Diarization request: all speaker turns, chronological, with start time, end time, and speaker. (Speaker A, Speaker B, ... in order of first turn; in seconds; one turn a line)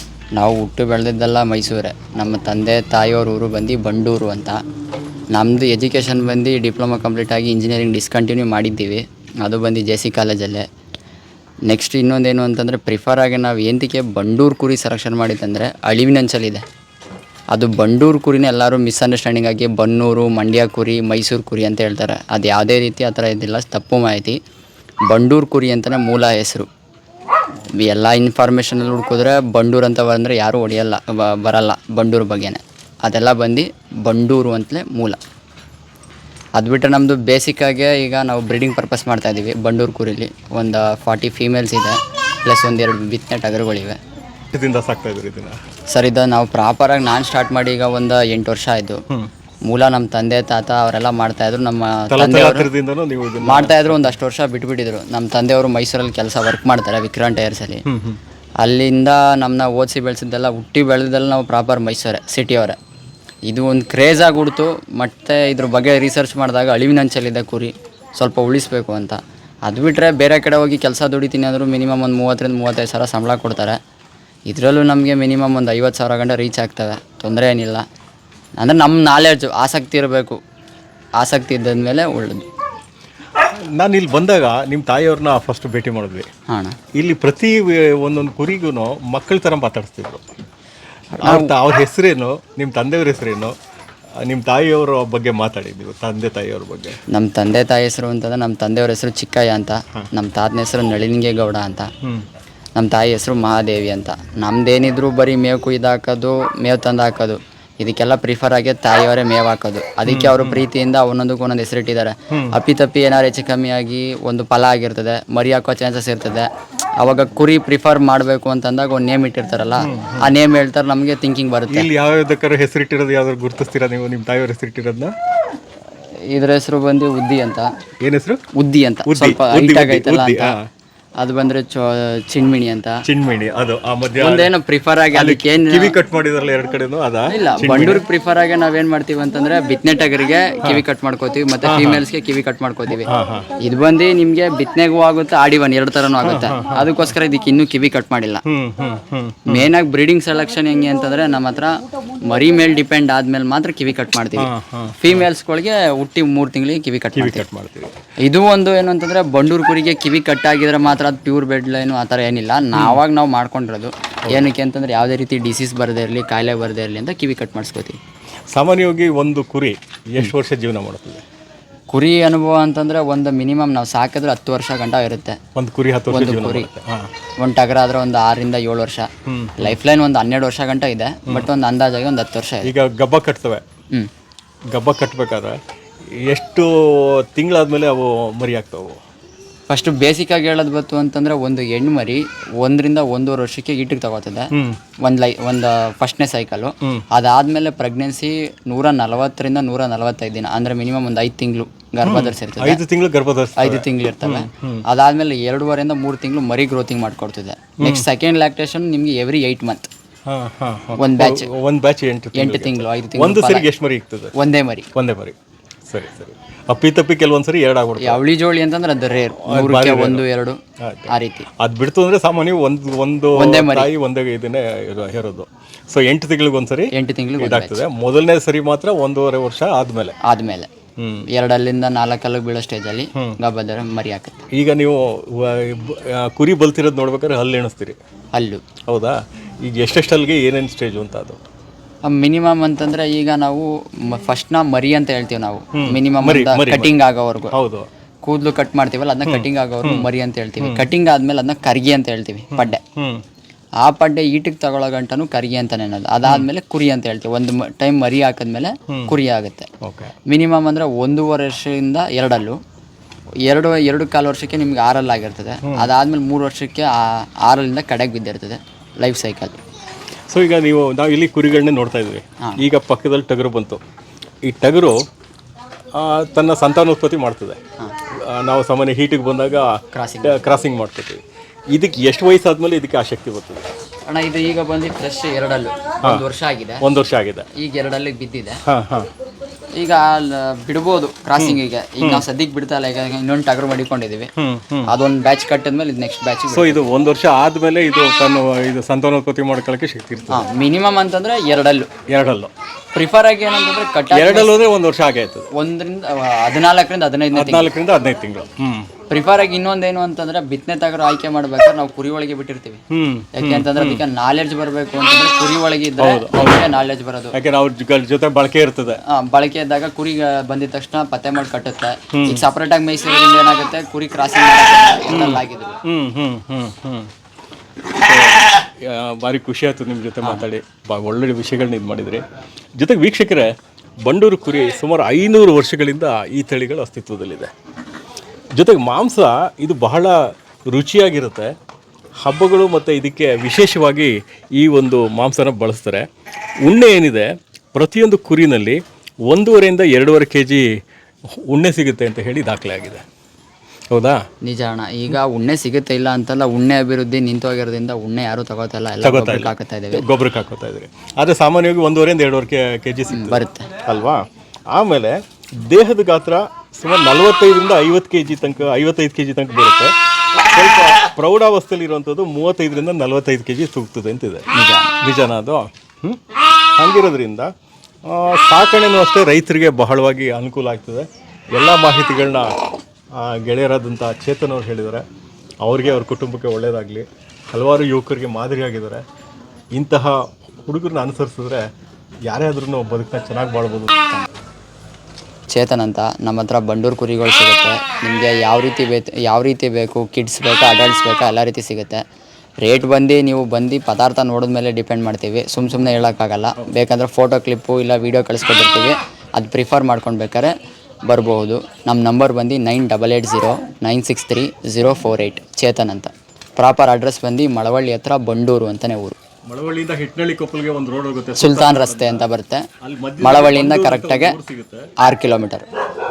Speaker A: 0.3-4.6
Speaker A: 5.3-10.6
Speaker A: 11.7-16.6
Speaker A: 17.5-24.4
Speaker A: 25.1-26.7
Speaker A: 27.8-35.2
Speaker A: 36.6-44.0
Speaker B: 44.5-45.6
Speaker A: 45.9-49.0
Speaker A: 49.6-52.7
Speaker B: 52.1-54.1
Speaker A: 53.4-57.8
Speaker B: 57.9-58.2
Speaker A: 58.6-62.8
Speaker A: 63.5-73.8
Speaker A: 74.5-77.8
Speaker A: 78.6-80.4
Speaker A: 81.2-82.4
Speaker B: 83.3-86.3
Speaker A: 86.5-86.8
Speaker B: 86.9-90.3
Speaker A: 91.1-91.5
Speaker B: 91.2-93.5
Speaker B: 94.2-97.0
Speaker A: 97.1-101.9
Speaker A: 102.8-116.5
Speaker B: 110.0-110.7
Speaker A: 117.0-121.9
Speaker B: 119.8-120.3
Speaker B: 121.7-125.1
Speaker A: 126.3-127.7
Speaker B: 128.0-128.5
Speaker A: 128.5-130.5
Speaker B: 129.1-130.7
Speaker A: 131.2-133.0
Speaker B: 133.0-134.5
Speaker A: 134.2-135.9
Speaker B: 135.1-138.0
Speaker A: 137.3-148.4
Speaker B: 141.6-142.0
Speaker B: 143.0-143.5
Speaker B: 146.2-147.1
Speaker B: 148.4-149.7
Speaker A: 149.5-157.4
Speaker B: 154.4-155.3
Speaker B: 157.1-157.9
Speaker A: 158.2-168.0
Speaker B: 162.7-163.0
Speaker B: 168.5-171.2
Speaker A: 171.9-175.4
Speaker B: 175.5-177.1
Speaker A: 176.1-176.7
Speaker A: 177.4-182.7
Speaker B: 179.3-179.8
Speaker B: 182.6-183.6
Speaker B: 184.7-185.6
Speaker B: 186.2-189.0
Speaker A: 189.7-194.5
Speaker B: 194.5-194.8
Speaker A: 195.0-202.8
Speaker B: 202.0-204.8
Speaker A: 203.6-209.9
Speaker B: 207.8-208.1
Speaker B: 210.3-214.3
Speaker A: 211.0-211.5
Speaker A: 212.3-213.7
Speaker A: 214.3-214.9
Speaker B: 214.9-218.2
Speaker A: 218.0-221.5
Speaker B: 219.4-220.2
Speaker B: 220.8-230.2
Speaker A: 223.3-223.9
Speaker A: 226.9-227.8
Speaker A: 230.2-230.7
Speaker B: 231.0-231.3
Speaker A: 231.3-234.4
Speaker B: 234.5-238.0
Speaker A: 238.3-238.6
Speaker B: 238.8-241.4
Speaker A: 242.0-247.5
Speaker B: 245.7-247.0
Speaker B: 247.5-247.9
Speaker A: 248.2-252.8
Speaker B: 249.2-250.1
Speaker B: 250.6-250.9
Speaker B: 252.5-253.2
Speaker A: 253.8-259.7
Speaker B: 258.9-259.1
Speaker B: 259.8-260.1
Speaker A: 260.2-262.6
Speaker A: 263.4-269.6
Speaker B: 265.6-265.9
Speaker B: 270.3-273.8
Speaker B: 274.4-275.0
Speaker B: 275.9-283.6
Speaker A: 279.9-280.5
Speaker A: 284.1-286.8
Speaker B: 286.8-287.5
Speaker A: 287.5-288.6
Speaker B: 288.6-289.1
Speaker A: 289.7-294.3
Speaker B: 291.3-292.2
Speaker B: 294.4-294.9
Speaker A: 294.9-296.8
Speaker B: 296.5-300.5
Speaker A: 300.3-301.9
Speaker B: 302.1-302.5
Speaker A: 302.9-304.5
Speaker B: 304.1-305.5
Speaker A: 305.5-307.7
Speaker B: 307.3-308.9
Speaker A: 309.1-312.8
Speaker B: 312.9-314.0
Speaker A: 313.3-317.4
Speaker B: 316.0-316.7
Speaker B: 317.3-319.0
Speaker A: 319.1-325.8
Speaker B: 322.1-322.4
Speaker B: 325.1-327.1
Speaker B: 327.9-332.2
Speaker B: 332.8-333.5
Speaker B: 334.0-337.5
Speaker B: 338.5-341.5
Speaker B: 342.2-346.1
Speaker B: 346.6-350.7
Speaker B: 351.3-353.0
Speaker B: 353.9-354.2
Speaker A: 354.4-360.0
Speaker B: 359.0-377.5
Speaker A: 363.1-363.7
Speaker A: 374.5-374.9
Speaker B: 378.0-382.5
Speaker B: 383.1-385.0
Speaker B: 385.6-389.0
Speaker B: 389.7-391.6
Speaker B: 392.2-394.0
Speaker A: 395.5-402.0
Speaker A: 402.6-410.5
Speaker A: 411.1-419.2
Speaker B: 419.4-422.3
Speaker A: 421.4-422.6
Speaker B: 422.8-424.9
Speaker A: 423.2-424.4
Speaker A: 425.0-425.6